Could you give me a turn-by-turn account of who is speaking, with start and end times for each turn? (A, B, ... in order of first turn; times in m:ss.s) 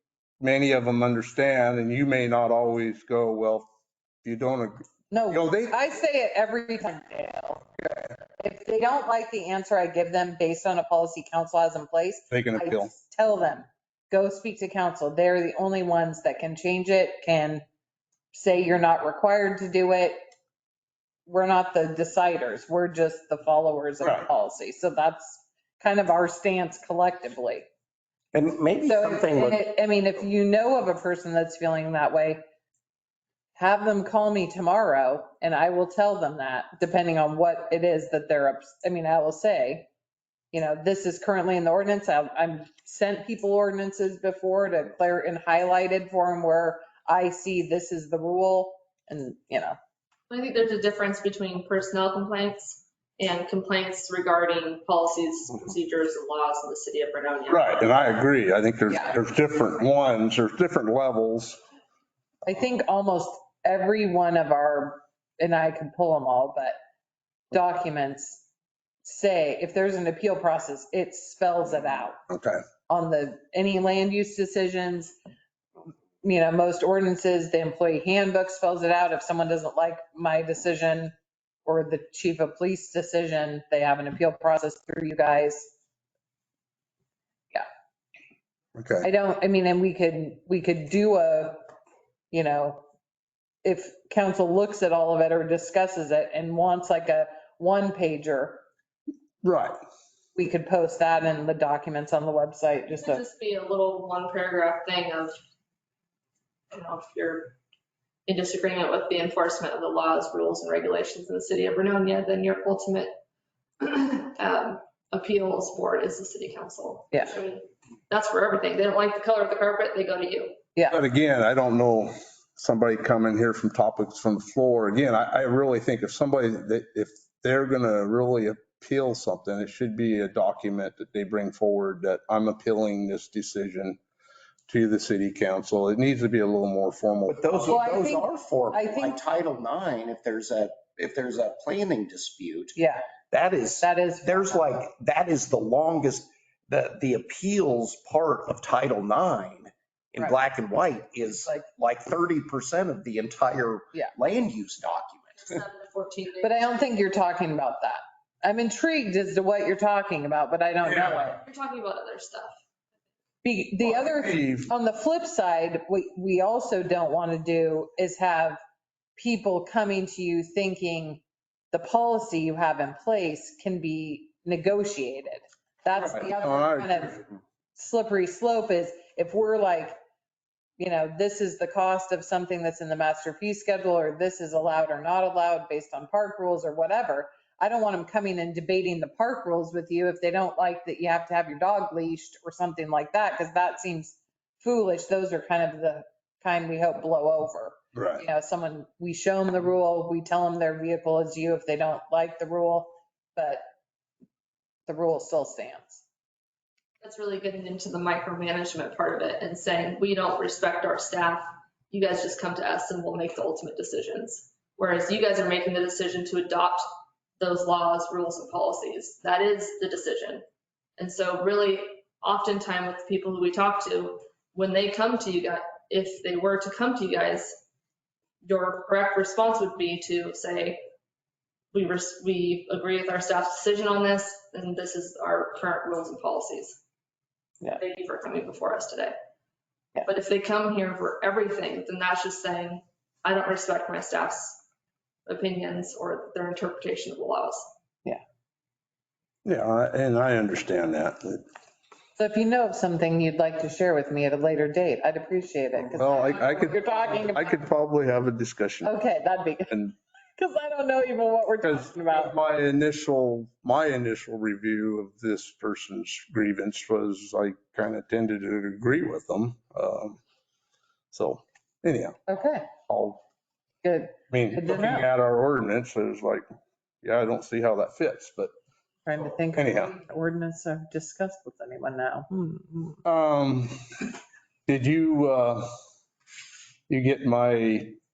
0:00.4-0:03.7 A
0:04.2-0:05.8 A
0:05.1-0:17.6 B
0:12.3-0:12.9 A
0:18.3-0:20.2 B
0:21.2-0:27.7 B
0:24.0-0:24.3 A
0:28.3-0:29.6 C
0:28.8-0:32.4 B
0:33.6-0:39.9 B
0:40.5-0:49.8 B
0:50.3-0:57.8 D
0:57.5-1:01.6 A
1:02.4-1:06.8 B
1:07.5-1:08.4 B
1:09.0-1:12.2 B
1:12.3-1:12.6 A
1:12.9-1:15.2 B
1:16.2-1:21.1 B
1:21.7-1:25.7 B
1:28.8-1:29.1 A
1:29.0-1:31.6 B
1:32.3-1:32.8 B
1:33.6-1:38.6 B
1:39.4-1:39.8 A
1:40.4-1:43.2 B
1:43.0-1:45.4 D
1:46.7-1:47.6 D
1:48.3-1:53.1 D
1:53.8-2:00.6 D
2:00.9-2:14.0 A
2:14.7-2:17.8 A
2:17.3-2:22.8 C
2:17.7-2:19.2 B
2:22.8-2:23.1 B
2:23.3-2:35.6 C
2:23.8-2:24.7 B
2:35.4-2:36.7 D
2:36.4-2:41.4 B
2:41.4-2:42.6 D
2:43.4-2:48.6 B
2:43.8-2:44.7 A
2:49.2-2:57.2 B
2:55.9-2:57.2 A
2:57.8-3:00.0 B
3:00.8-3:23.6 B
3:17.9-3:18.2 A
3:24.9-3:26.0 B
3:27.0-3:36.9 D
3:37.4-3:40.4 D
3:41.0-3:47.6 D
3:48.4-3:50.8 D
3:51.7-3:56.8 D
3:57.8-3:59.1 D
4:00.0-4:04.6 D
4:05.2-4:07.7 D
4:09.4-4:11.4 A
4:12.2-4:17.4 B
4:15.9-4:18.9 A
4:16.2-4:16.8 D
4:18.8-4:19.8 B
4:19.7-4:19.9 A
4:20.4-4:22.3 B
4:21.6-4:30.2 A
4:31.1-4:32.2 A
4:32.3-4:32.7 B
4:32.9-4:33.2 A
4:33.8-4:35.1 B
4:34.3-4:36.4 A
4:37.0-4:38.5 A
4:39.1-4:43.0 B
4:39.5-4:40.0 A
4:43.0-4:43.8 A
4:44.7-4:45.7 A
4:46.9-4:48.0 A